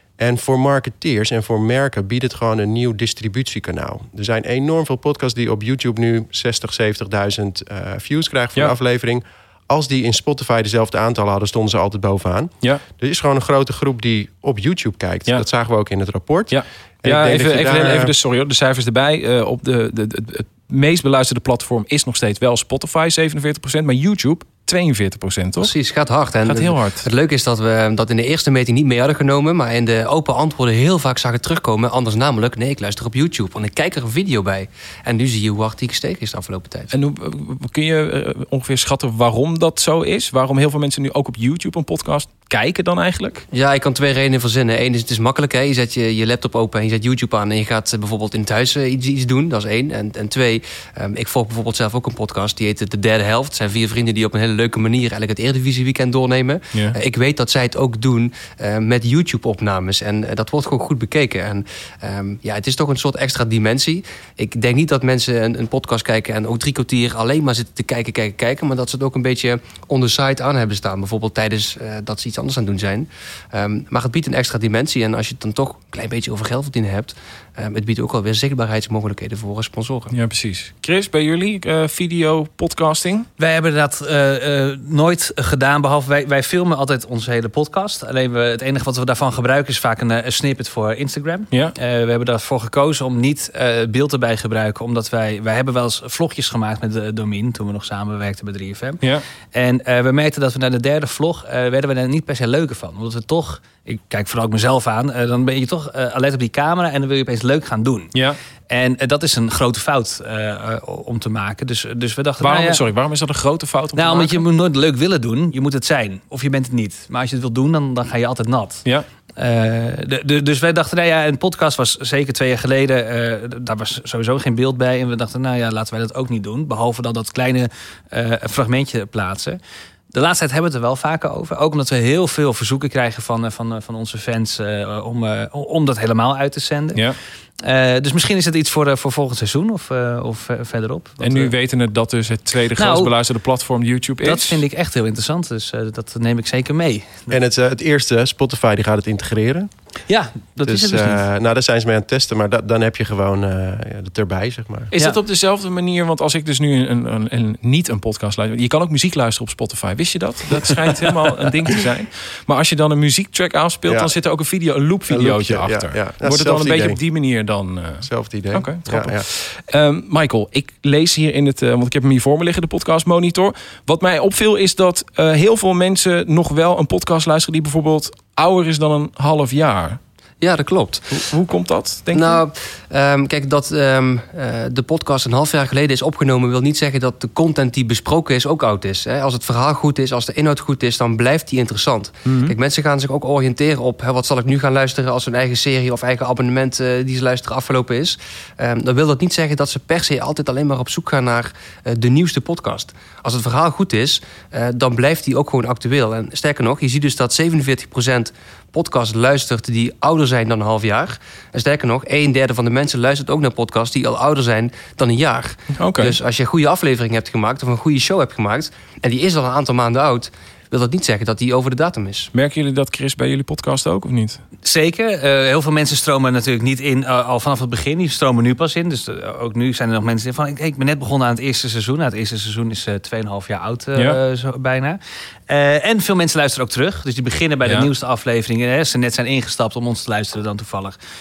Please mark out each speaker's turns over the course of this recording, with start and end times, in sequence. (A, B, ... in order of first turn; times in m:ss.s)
0:00.2-0:18.1 A
0:16.5-0:25.7 B
0:25.6-0:36.9 C
0:26.4-0:27.1 B
0:36.9-0:43.4 B
0:43.5-1:20.1 C
1:20.1-1:23.3 B
1:23.4-1:39.0 D
1:39.5-1:48.1 D
1:48.7-1:52.8 D
1:52.4-1:54.4 B
1:54.0-1:58.8 D
1:59.4-2:09.6 D
2:10.1-2:17.1 D
2:17.6-2:21.5 D
2:21.2-2:24.6 B
2:22.8-2:23.1 D
2:24.2-2:27.4 D
2:27.3-2:29.7 A
2:30.1-2:31.2 D
2:30.6-2:34.9 A
2:34.9-3:00.0 B
2:43.9-2:44.1 A
2:45.1-2:47.0 A
2:48.0-2:49.2 A
3:00.4-3:01.3 C
3:01.1-3:02.4 B
3:02.1-3:42.3 C
3:12.2-3:12.5 B
3:35.8-3:36.2 B
3:42.3-3:44.4 B
3:44.6-4:01.0 D
3:57.6-3:57.9 B